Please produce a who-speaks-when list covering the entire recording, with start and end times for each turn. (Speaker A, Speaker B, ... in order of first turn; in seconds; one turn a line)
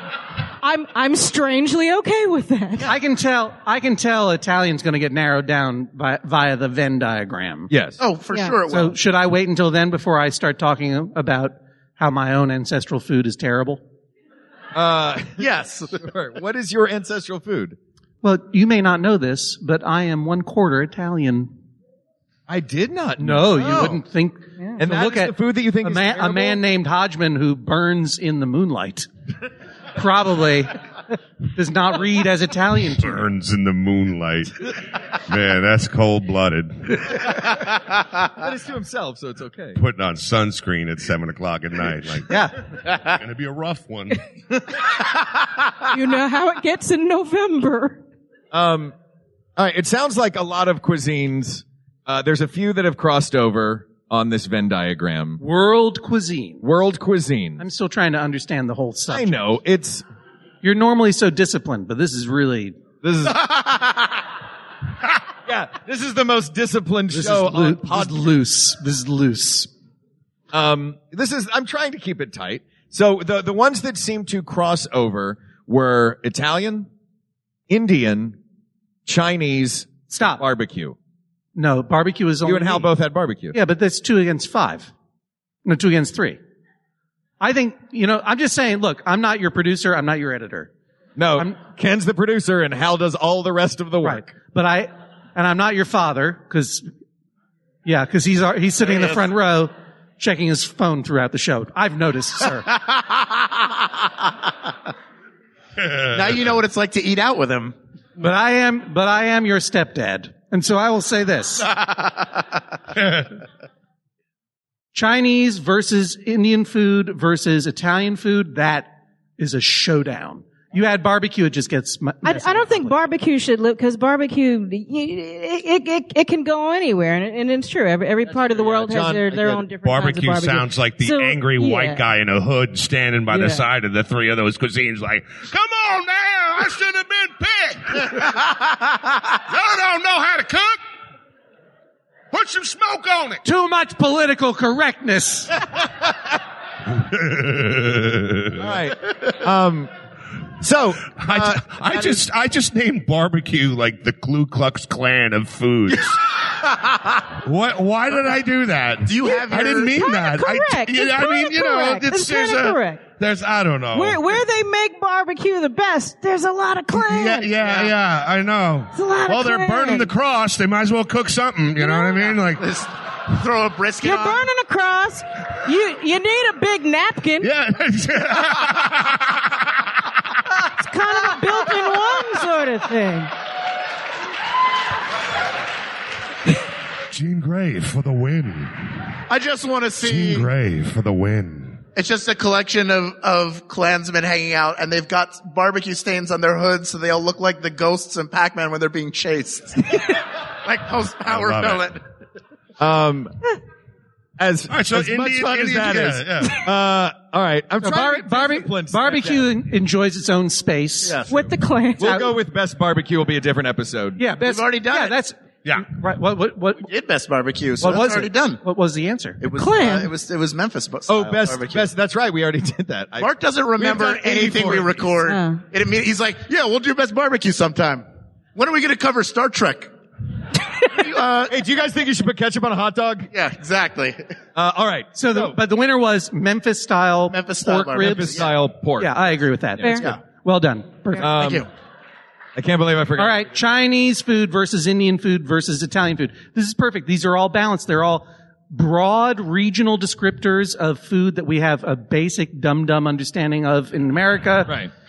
Speaker A: 0.6-2.9
Speaker B: 2.8-7.7
Speaker C: 7.7-8.0
Speaker D: 8.0-9.0
Speaker A: 8.3-8.5
Speaker B: 8.7-13.8
Speaker C: 14.7-17.8
Speaker D: 15.4-16.0
Speaker B: 18.2-21.5
Speaker C: 22.5-24.0
Speaker B: 23.2-29.1
Speaker C: 24.8-26.6
Speaker B: 29.9-30.8
Speaker B: 31.5-33.2
Speaker E: 33.0-34.7
Speaker E: 35.3-37.6
Speaker C: 38.4-39.8
Speaker E: 39.7-42.3
Speaker B: 42.3-42.5
Speaker E: 43.0-44.2
Speaker A: 45.9-48.0
Speaker C: 48.5-48.9
Speaker C: 49.6-55.4
Speaker B: 55.4-56.6
Speaker C: 56.6-57.6
Speaker B: 57.6-59.4
Speaker C: 59.1-60.0
Speaker B: 60.6-62.8
Speaker C: 63.0-63.5
Speaker C: 65.5-68.2
Speaker B: 67.1-69.7
Speaker C: 70.5-76.9
Speaker C: 77.7-78.4
Speaker C: 79.0-81.0
Speaker B: 80.1-80.4
Speaker B: 81.5-82.9
Speaker C: 82.4-83.6
Speaker B: 83.5-84.9
Speaker B: 85.6-86.4
Speaker B: 87.4-90.7
Speaker C: 91.2-94.3
Speaker B: 94.0-96.8
Speaker B: 97.8-102.7
Speaker D: 102.9-103.6
Speaker E: 105.8-106.5
Speaker D: 106.1-107.7
Speaker B: 108.2-111.7
Speaker D: 111.7-112.4
Speaker E: 113.0-113.3
Speaker B: 114.9-123.0
Speaker A: 122.2-132.0
Speaker C: 128.3-129.6
Speaker E: 129.8-138.4
Speaker A: 133.3-133.7
Speaker E: 139.5-140.8
Speaker E: 142.3-143.4
Speaker B: 143.4-145.7
Speaker E: 146.9-148.7
Speaker C: 148.6-149.9
Speaker C: 150.6-152.2
Speaker E: 151.1-156.3
Speaker E: 157.4-164.3
Speaker D: 159.1-160.1
Speaker A: 159.9-163.0
Speaker A: 163.9-167.5
Speaker E: 166.9-172.7
Speaker D: 167.6-167.9
Speaker A: 168.9-170.1
Speaker A: 171.8-172.1
Speaker D: 172.5-174.5
Speaker A: 174.0-177.5
Speaker E: 177.4-179.4
Speaker A: 180.8-183.3
Speaker E: 187.1-189.1
Speaker D: 189.3-190.5
Speaker E: 190.0-191.8
Speaker D: 191.9-202.0
Speaker E: 201.2-201.8
Speaker C: 202.8-203.3
Speaker C: 204.4-209.5
Speaker E: 204.7-206.6
Speaker B: 207.8-211.2
Speaker D: 211.0-211.5
Speaker A: 211.3-212.3
Speaker C: 212.0-214.2
Speaker B: 214.2-216.9
Speaker D: 214.4-215.2
Speaker D: 216.8-218.6
Speaker B: 217.8-219.4
Speaker D: 219.4-221.9
Speaker A: 219.5-220.1
Speaker C: 221.1-225.2
Speaker D: 223.2-229.9
Speaker A: 225.3-225.6
Speaker D: 230.8-231.5
Speaker C: 231.5-233.3
Speaker D: 233.3-234.2
Speaker C: 234.5-235.6
Speaker B: 235.2-238.4
Speaker D: 237.3-238.5
Speaker C: 238.0-239.2
Speaker B: 239.0-241.3
Speaker C: 241.2-241.7
Speaker D: 241.2-241.7
Speaker C: 242.6-243.5
Speaker B: 243.2-254.8
Speaker C: 254.7-254.9